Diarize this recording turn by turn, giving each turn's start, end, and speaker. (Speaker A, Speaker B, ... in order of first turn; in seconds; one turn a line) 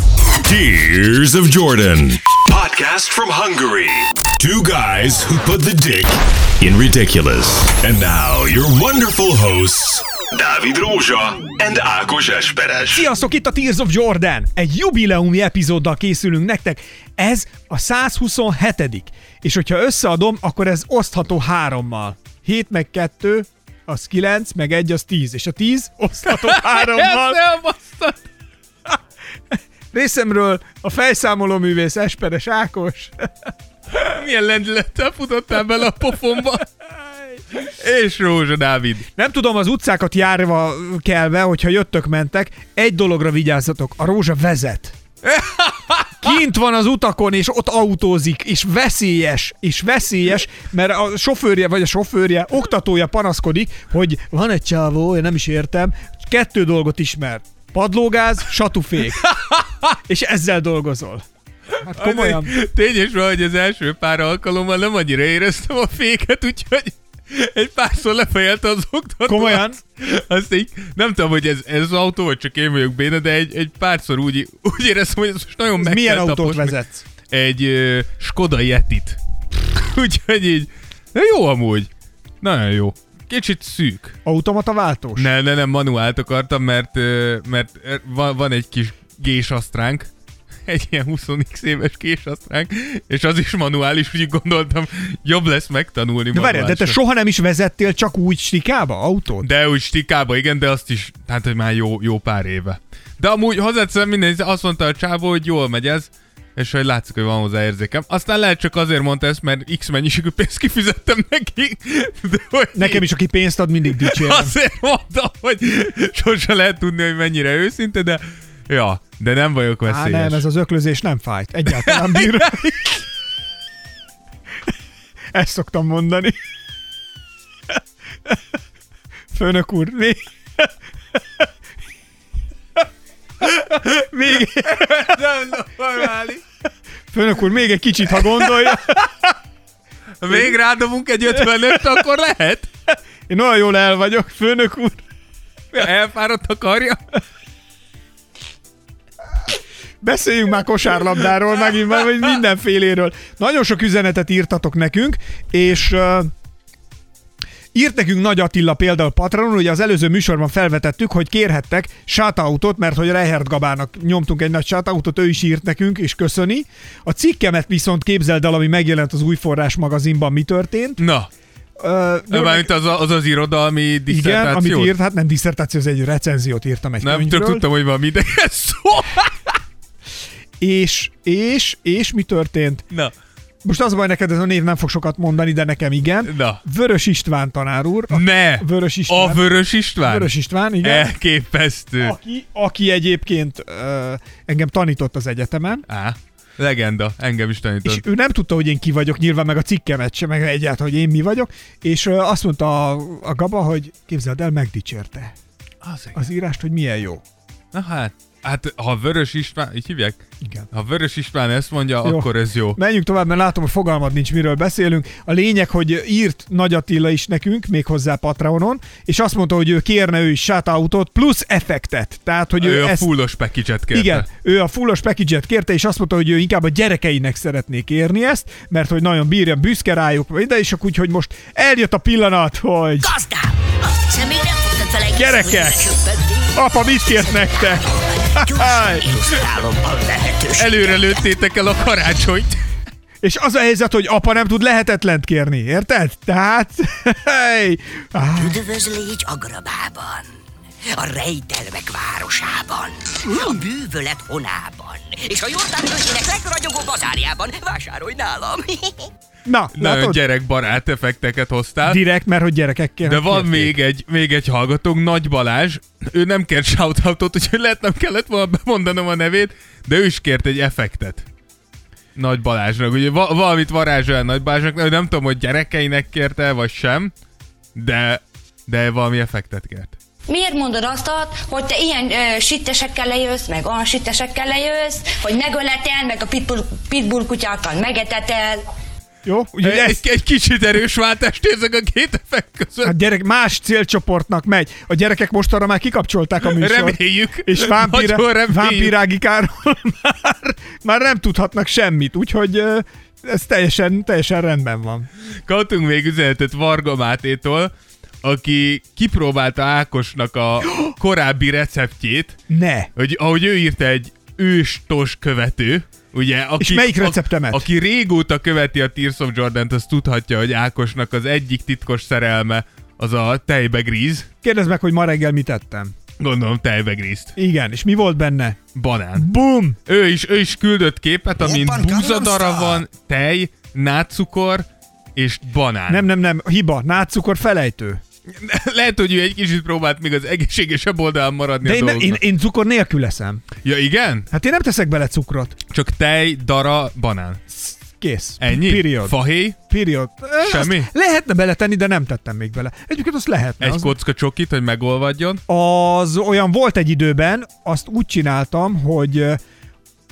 Speaker A: 0.4-13.0
Speaker B: 12.9-27.4
Speaker C: 26.2-28.3
Speaker B: 29.5-33.5
Speaker C: 34.0-36.6
Speaker C: 37.6-39.1
Speaker B: 39.1-45.0
Speaker C: 45.2-46.3
Speaker B: 46.2-59.2
Speaker C: 59.2-60.0
Speaker B: 60.1-61.2
Speaker B: 61.8-62.5
Speaker C: 61.9-76.8
Speaker B: 69.3-69.8
Speaker B: 75.8-77.0
Speaker C: 77.3-79.2
Speaker C: 79.7-81.9
Speaker C: 82.4-84.2
Speaker B: 84.2-85.3
Speaker C: 85.2-90.1
Speaker C: 90.7-97.0
Speaker B: 96.3-99.5
Speaker C: 99.4-113.0
Speaker B: 112.8-114.5
Speaker C: 114.0-120.4
Speaker B: 119.8-122.8
Speaker C: 121.8-123.0
Speaker B: 125.3-126.4
Speaker B: 129.3-130.7
Speaker B: 133.4-135.2
Speaker C: 134.7-136.4
Speaker B: 137.1-139.3
Speaker C: 138.4-138.7
Speaker C: 140.2-142.7
Speaker B: 141.4-141.9
Speaker B: 143.3-145.0
Speaker C: 145.7-147.0
Speaker B: 150.0-156.3
Speaker B: 157.7-171.0
Speaker C: 171.0-171.3
Speaker B: 171.8-172.7
Speaker C: 172.3-174.9
Speaker B: 174.1-177.6
Speaker C: 177.0-179.6
Speaker B: 180.6-182.9
Speaker B: 183.6-189.4
Speaker C: 186.2-186.6
Speaker C: 188.1-190.3
Speaker B: 190.0-191.1
Speaker C: 190.8-192.2
Speaker B: 192.0-195.8
Speaker C: 195.9-198.0
Speaker B: 197.8-205.3
Speaker C: 205.8-206.2
Speaker B: 206.1-207.2
Speaker C: 207.7-212.8
Speaker B: 212.0-223.1
Speaker C: 222.6-224.2
Speaker B: 223.9-233.1
Speaker D: 233.0-236.5
Speaker B: 235.1-236.0
Speaker B: 236.5-239.1
Speaker D: 237.1-241.3
Speaker C: 240.6-242.7
Speaker B: 243.2-248.6
Speaker D: 248.4-250.3
Speaker D: 250.9-259.1
Speaker B: 259.5-260.2
Speaker C: 259.8-262.0
Speaker B: 261.8-263.8
Speaker C: 263.1-271.3
Speaker C: 272.2-277.1
Speaker C: 277.8-280.0
Speaker E: 280.3-288.6
Speaker B: 289.2-290.0
Speaker C: 289.6-292.9
Speaker B: 292.8-305.1
Speaker C: 296.4-298.9
Speaker C: 305.5-307.7
Speaker C: 308.2-312.4
Speaker B: 312.5-312.9
Speaker C: 312.9-324.3
Speaker B: 316.6-317.6
Speaker B: 324.4-325.9
Speaker C: 326.2-327.4
Speaker B: 327.4-328.6
Speaker C: 328.8-329.3
Speaker B: 329.2-329.8
Speaker C: 329.8-336.1
Speaker B: 331.4-332.7
Speaker B: 335.9-338.0
Speaker C: 338.3-342.2
Speaker B: 341.6-343.4
Speaker C: 343.6-344.3
Speaker B: 344.3-345.6
Speaker C: 345.7-347.4
Speaker B: 347.5-353.9
Speaker C: 348.4-349.6
Speaker C: 350.4-350.9
Speaker C: 353.6-355.4
Speaker B: 355.5-359.4